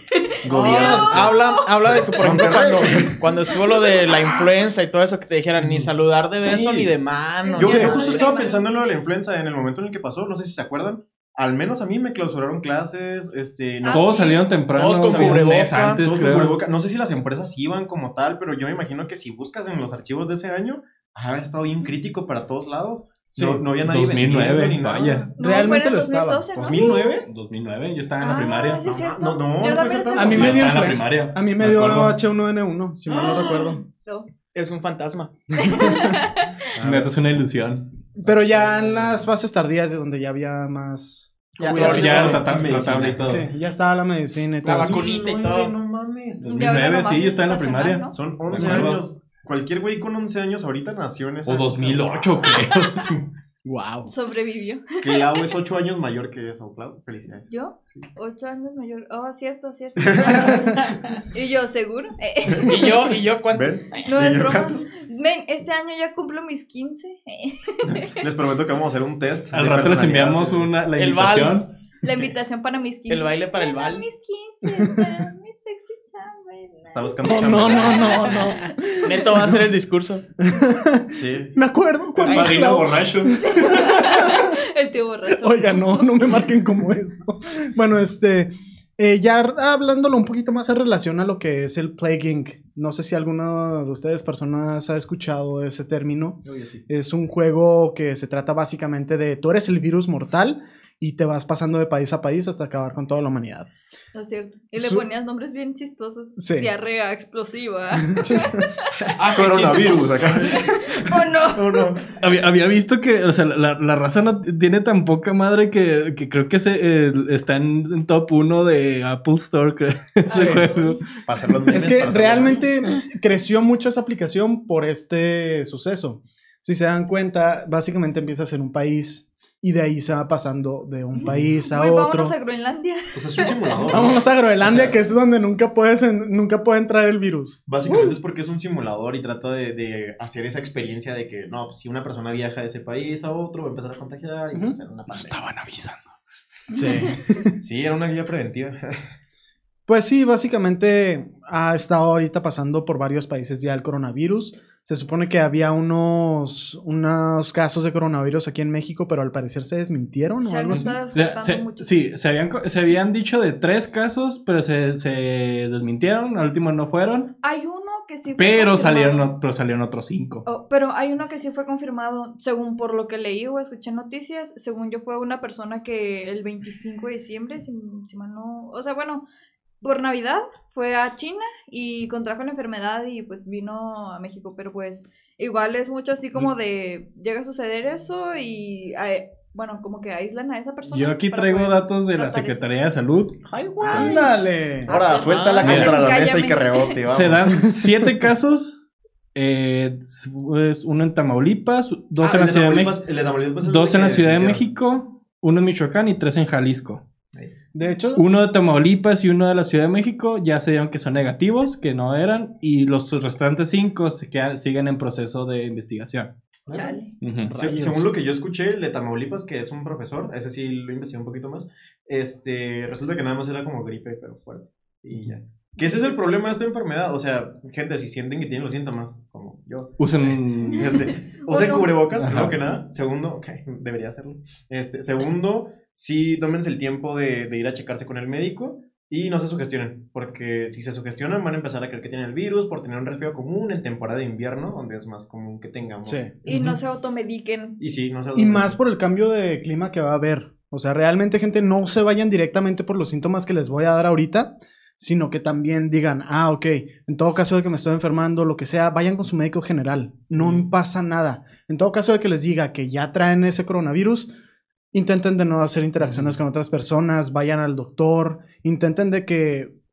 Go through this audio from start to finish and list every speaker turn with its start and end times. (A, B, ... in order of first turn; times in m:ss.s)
0:00.1-0:01.6 A
0:00.4-0:03.2 B
0:00.5-0:08.4 C
0:03.5-0:04.3 A
0:06.4-0:06.9 B
0:07.4-0:08.9 A
0:07.6-0:14.2 B
0:13.8-0:14.5 A
0:13.8-0:16.6 D
0:14.7-0:16.0 C
0:15.0-0:25.2 B
0:23.4-0:23.6 E
0:23.8-0:25.3 D
0:25.3-0:27.2 A
0:25.4-0:26.5 E
0:26.6-0:27.3 B
0:27.2-0:28.9 D
0:28.2-0:30.6 A
0:28.8-0:31.0 B
0:30.1-0:33.8 E
0:30.2-0:32.1 D
0:31.6-0:32.1 B
0:33.1-0:33.7 C
0:33.9-0:34.3 A
0:34.5-0:35.3 C
0:35.6-0:36.6 A
0:35.6-0:36.2 E
0:36.8-0:37.1 B
0:36.8-0:37.8 D
0:38.2-0:42.4 E
0:38.2-0:39.1 B
0:41.6-0:43.4 B
0:41.7-0:42.4 C
0:41.8-0:43.5 D
0:43.2-0:45.0 E
0:44.6-0:45.7 C
0:44.6-0:46.8 B
0:46.4-0:49.0 D
0:46.4-0:48.1 A
0:48.1-0:53.2 B
0:48.6-0:48.9 E
0:51.4-0:53.1 D
0:53.6-0:54.1 E
0:54.0-0:55.5 A
0:55.0-0:58.0 B
0:57.5-1:03.1 A
1:00.0-1:01.0 B
1:02.6-1:04.2 C
1:03.5-1:04.8 B
1:04.0-1:08.2 A
1:07.8-1:10.8 B
1:09.5-1:11.7 D
1:10.9-1:11.7 C
1:12.0-1:19.2 A
1:13.1-1:14.1 C
1:16.9-1:18.5 B
1:17.2-1:19.6 E
1:19.0-1:20.2 C
1:20.4-1:24.5 E
1:21.1-1:21.5 B
1:22.2-1:23.6 D
1:23.4-1:26.2 A
1:25.3-1:43.7 E
1:36.4-1:36.8 D
1:44.1-1:48.8 A
1:44.8-1:45.0 E
1:46.4-1:46.7 E
1:48.1-1:48.4 E
1:49.0-1:52.2 B
1:49.2-1:50.4 C
1:49.6-1:51.9 A
1:52.2-2:01.2 D
2:00.3-2:01.0 A
2:00.3-2:00.6 E
2:01.2-2:02.6 B
2:01.7-2:12.3 E
2:11.6-2:13.8 A
2:13.1-2:15.0 B
2:13.9-2:18.2 E
2:17.7-2:25.3 B
2:25.1-2:26.1 D
2:26.7-2:27.6 E
2:26.8-2:27.0 A
2:27.6-2:29.0 B
2:29.9-2:41.0 E
2:40.4-2:42.1 A
2:40.7-2:47.3 D
2:47.4-2:49.3 A
2:48.3-2:50.4 D
2:50.4-2:59.2 A
2:59.8-3:12.6 A
3:10.8-3:13.4 D
3:13.5-3:14.2 B
3:13.8-3:14.4 A
3:13.8-3:15.0 E
3:14.9-3:17.6 B
3:14.9-3:17.0 A
3:15.0-3:15.8 C
3:15.6-3:16.0 D
3:17.1-3:18.8 D
3:19.3-3:23.0 D
3:22.2-3:24.6 B
3:23.6-3:27.0 D
3:27.7-3:28.2 E
3:28.1-3:36.3 D
3:36.7-3:37.1 A
3:37.2-3:37.6 D
3:37.5-3:38.1 E
3:37.5-4:06.3 B
3:50.0-3:51.1 D
3:51.0-3:51.9 A
3:52.1-3:52.6 D
4:06.0-4:06.3 E
4:06.4-4:07.8 A
4:06.5-4:06.8 D
4:07.8-4:08.8 B
4:08.3-4:24.3 E
4:24.9-4:29.7 E
4:26.0-4:26.4 D